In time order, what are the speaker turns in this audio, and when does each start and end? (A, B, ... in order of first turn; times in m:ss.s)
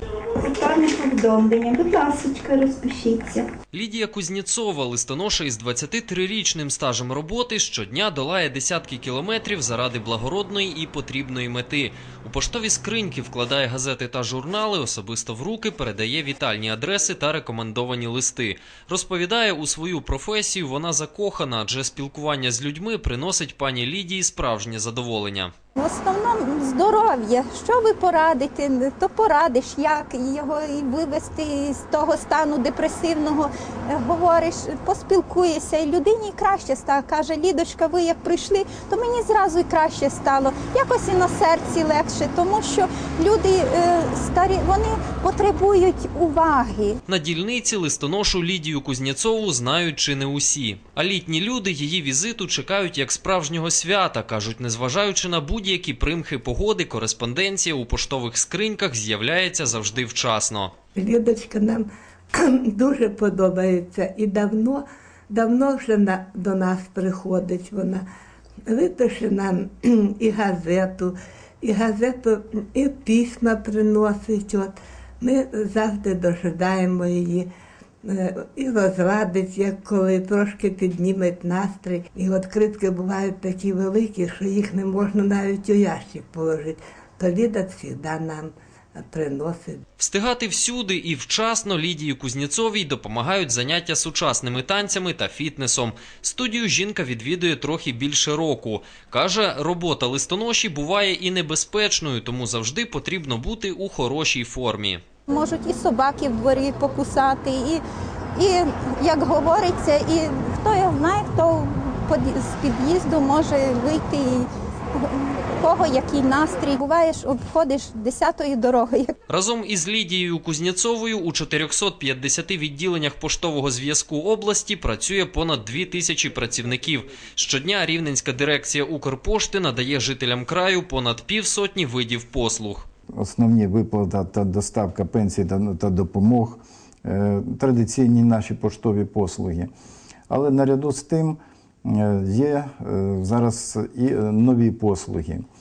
0:00.4-0:03.4 A
0:03.7-0:25.5 B
0:25.8-0:47.0 C
0:47.0-1:00.7 B
1:00.9-1:08.0 D
1:08.6-1:17.5 D
1:18.0-1:29.8 D
1:30.0-1:45.0 B
1:45.3-1:47.8 C
1:48.4-1:59.1 C
1:59.3-2:12.9 B
2:13.2-2:19.7 E
2:20.3-2:25.4 E